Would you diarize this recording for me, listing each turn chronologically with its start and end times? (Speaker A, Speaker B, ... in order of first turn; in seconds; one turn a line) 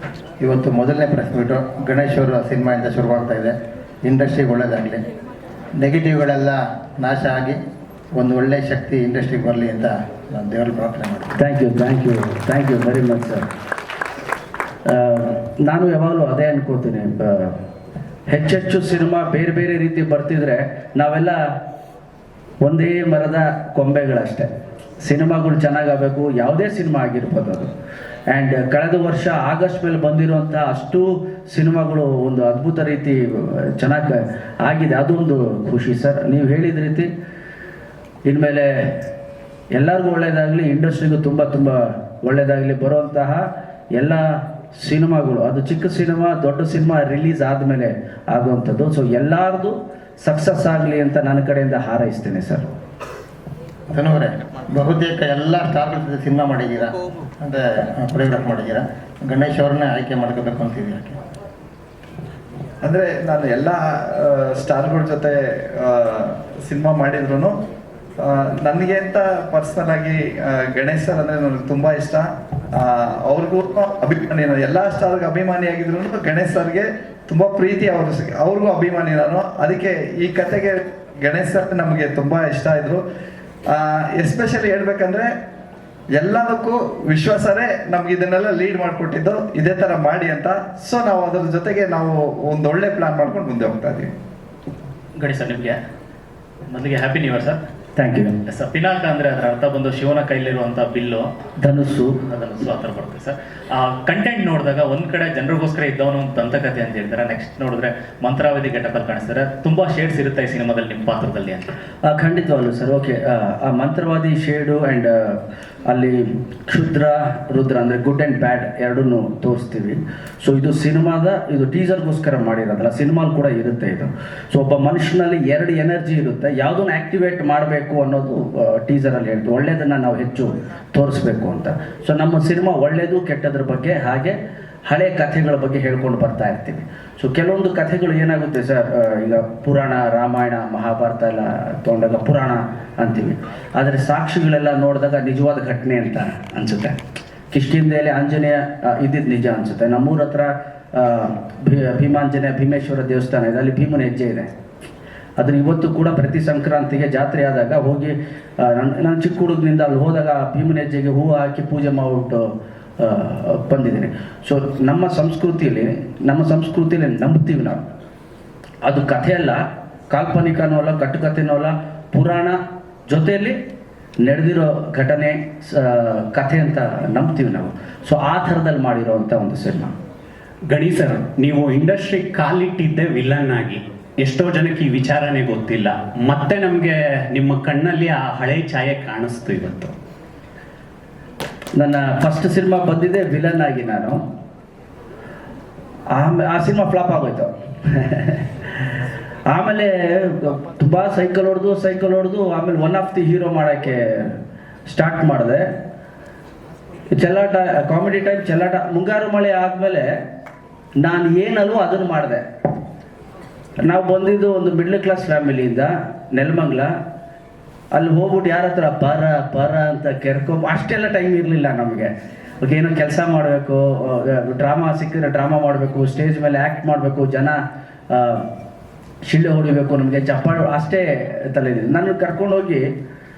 Speaker A: 0.4-5.0
Speaker A: 5.8-7.6
Speaker A: 8.2-11.4
Speaker B: 11.4-13.5
Speaker B: 14.8-17.6
Speaker B: 18.3-21.4
Speaker B: 22.6-24.5
Speaker B: 25.0-27.7
Speaker B: 28.3-37.1
Speaker B: 38.2-39.0
Speaker B: 39.7-44.2
Speaker B: 44.7-52.7
Speaker A: 53.9-61.2
Speaker C: 62.8-67.5
Speaker C: 68.2-83.0
Speaker C: 83.7-85.3
Speaker C: 86.2-94.1
Speaker D: 95.2-95.8
Speaker D: 96.7-97.6
Speaker B: 98.0-98.3
Speaker D: 98.5-101.3
Speaker B: 101.6-102.2
Speaker D: 102.2-111.6
Speaker B: 112.0-146.9
Speaker B: 147.5-154.5
Speaker B: 155.4-167.8
Speaker B: 168.8-173.6
Speaker B: 174.2-179.9
Speaker E: 180.7-189.9
Speaker B: 191.8-194.2
Speaker B: 196.1-198.4
Speaker B: 199.5-205.6
Speaker B: 207.1-210.1
Speaker B: 211.0-212.4
Speaker B: 213.8-216.9
Speaker B: 217.9-222.1
Speaker B: 222.6-227.6
Speaker B: 228.1-228.5
Speaker B: 229.2-232.9